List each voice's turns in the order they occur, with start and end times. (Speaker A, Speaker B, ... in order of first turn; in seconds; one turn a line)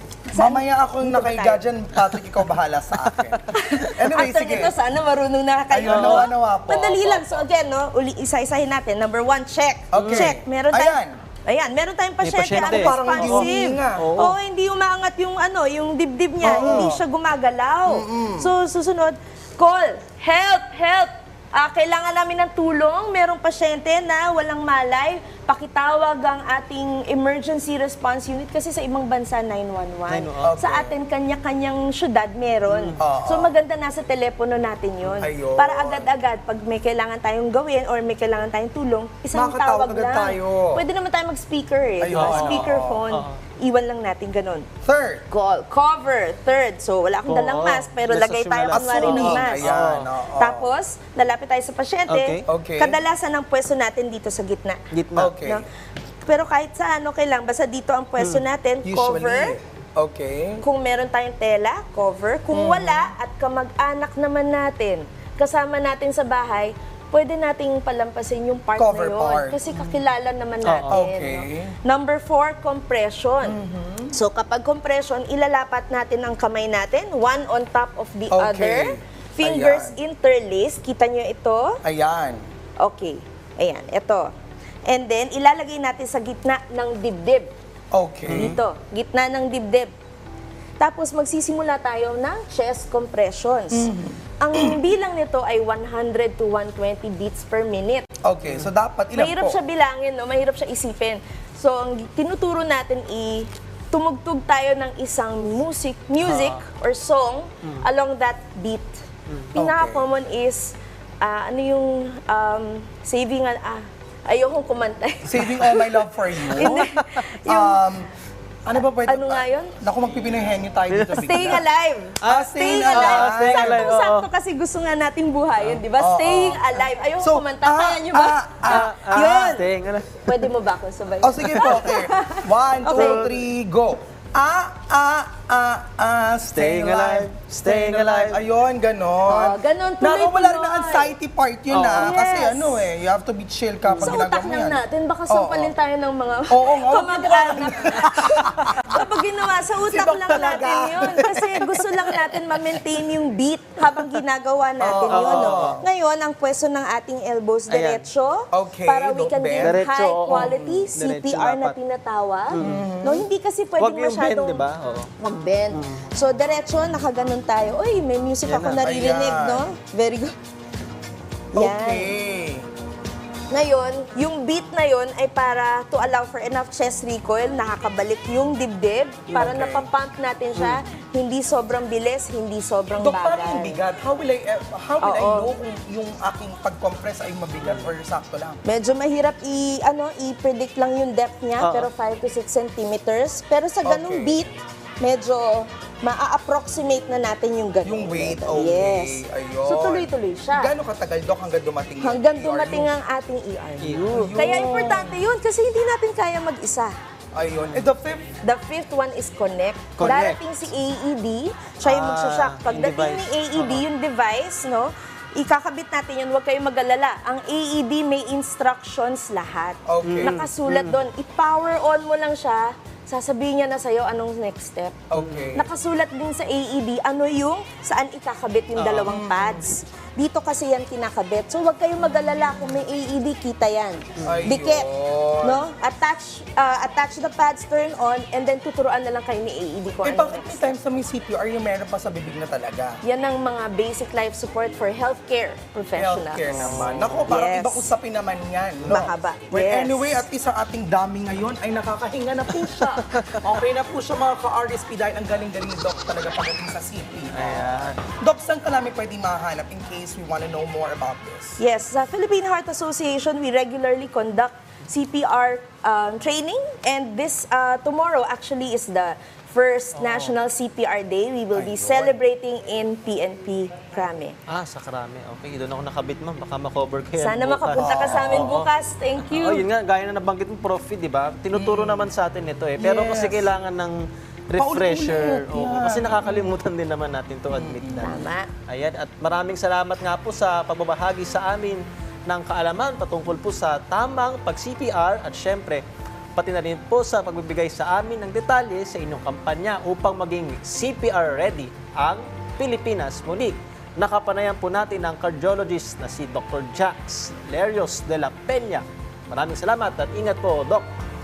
Speaker A: 0.3-1.6
Speaker B: 0.3-4.7
Speaker C: 3.0-3.5
Speaker A: 3.5-44.7
Speaker B: 5.7-7.5
Speaker C: 5.8-6.3
Speaker B: 9.9-11.2
Speaker C: 9.9-10.4
Speaker C: 12.2-14.4
Speaker B: 12.4-14.1
Speaker B: 16.4-17.0
Speaker C: 16.5-17.0
Speaker B: 17.9-18.5
Speaker C: 30.1-30.6
Speaker B: 30.4-31.0
Speaker C: 32.7-33.0
Speaker B: 33.0-33.5
Speaker B: 35.2-36.1
Speaker B: 39.3-40.8
Speaker B: 42.0-43.1
Speaker C: 42.1-43.4
Speaker B: 44.8-45.2
Speaker A: 45.3-55.7
Speaker C: 47.3-50.1
Speaker B: 48.7-50.7
Speaker C: 52.1-52.5
Speaker B: 52.5-53.0
Speaker C: 54.9-55.3
Speaker B: 55.2-55.6
Speaker A: 56.3-59.6
Speaker C: 58.2-58.4
Speaker B: 58.8-60.6
Speaker A: 60.6-73.6
Speaker B: 62.5-63.1
Speaker B: 68.8-69.9
Speaker C: 70.6-71.0
Speaker B: 70.9-71.8
Speaker B: 73.4-74.2
Speaker A: 74.1-81.8
Speaker B: 78.3-80.0
Speaker B: 81.8-82.4
Speaker A: 82.8-84.3
Speaker A: 84.9-87.5
Speaker B: 87.9-88.5
Speaker C: 88.3-88.6
Speaker A: 88.3-89.9
Speaker A: 90.8-98.1
Speaker B: 93.7-94.8
Speaker B: 98.2-99.6
Speaker A: 99.1-109.0
Speaker C: 106.2-106.6
Speaker C: 109.3-109.5
Speaker B: 109.5-110.0
Speaker A: 109.5-117.8
Speaker B: 115.2-116.9
Speaker C: 116.6-117.3
Speaker B: 117.4-118.1
Speaker B: 118.6-121.6
Speaker A: 118.8-119.8
Speaker C: 120.3-121.6
Speaker A: 121.1-129.7
Speaker B: 122.2-123.9
Speaker C: 122.2-124.3
Speaker B: 126.0-129.6
Speaker C: 128.7-130.3
Speaker A: 130.2-133.3
Speaker B: 131.2-145.7
Speaker C: 131.4-131.9
Speaker C: 132.9-133.3
Speaker C: 136.5-138.4
Speaker A: 139.3-141.1
Speaker C: 141.7-142.1
Speaker A: 141.9-142.9
Speaker C: 143.9-144.2
Speaker A: 144.0-164.7
Speaker B: 146.5-149.0
Speaker B: 149.8-152.4
Speaker B: 154.8-155.8
Speaker C: 155.1-155.8
Speaker C: 157.7-158.0
Speaker B: 158.5-160.6
Speaker C: 159.6-161.8
Speaker C: 162.5-162.8
Speaker B: 162.6-163.3
Speaker C: 163.8-165.1
Speaker A: 165.2-170.3
Speaker C: 165.7-166.0
Speaker C: 168.4-168.8
Speaker B: 168.8-169.7
Speaker B: 171.5-172.7
Speaker A: 171.5-172.1
Speaker A: 173.5-183.8
Speaker B: 179.3-179.9
Speaker C: 180.6-180.8
Speaker B: 183.0-188.6
Speaker A: 185.0-185.6
Speaker A: 188.7-200.8
Speaker C: 191.6-191.9
Speaker B: 193.8-194.4
Speaker B: 197.8-202.9
Speaker A: 202.0-206.9
Speaker C: 203.8-204.4
Speaker B: 204.1-205.2
Speaker B: 207.3-208.4
Speaker A: 208.4-225.0
Speaker C: 210.0-210.4
Speaker C: 211.8-213.8
Speaker B: 219.9-220.4
Speaker C: 220.1-221.0
Speaker B: 225.1-225.7
Speaker C: 225.2-225.6
Speaker A: 225.6-234.9
Speaker C: 228.8-229.2
Speaker B: 229.0-229.7
Speaker C: 234.2-234.5
Speaker B: 234.2-235.7
Speaker A: 235.4-240.8
Speaker B: 240.0-243.0
Speaker A: 243.0-247.9
Speaker B: 246.0-261.6
Speaker C: 246.5-247.3
Speaker A: 248.8-250.2
Speaker A: 252.7-253.0
Speaker C: 253.0-253.4
Speaker C: 257.3-258.0
Speaker A: 261.6-274.4
Speaker C: 269.9-270.4
Speaker B: 271.5-272.2
Speaker C: 274.5-278.7
Speaker A: 277.2-279.7
Speaker B: 277.8-278.5
Speaker C: 279.2-295.8
Speaker B: 281.5-282.1
Speaker B: 282.8-283.5
Speaker B: 284.6-286.6
Speaker B: 287.5-288.2
Speaker A: 288.0-288.5
Speaker C: 296.4-310.9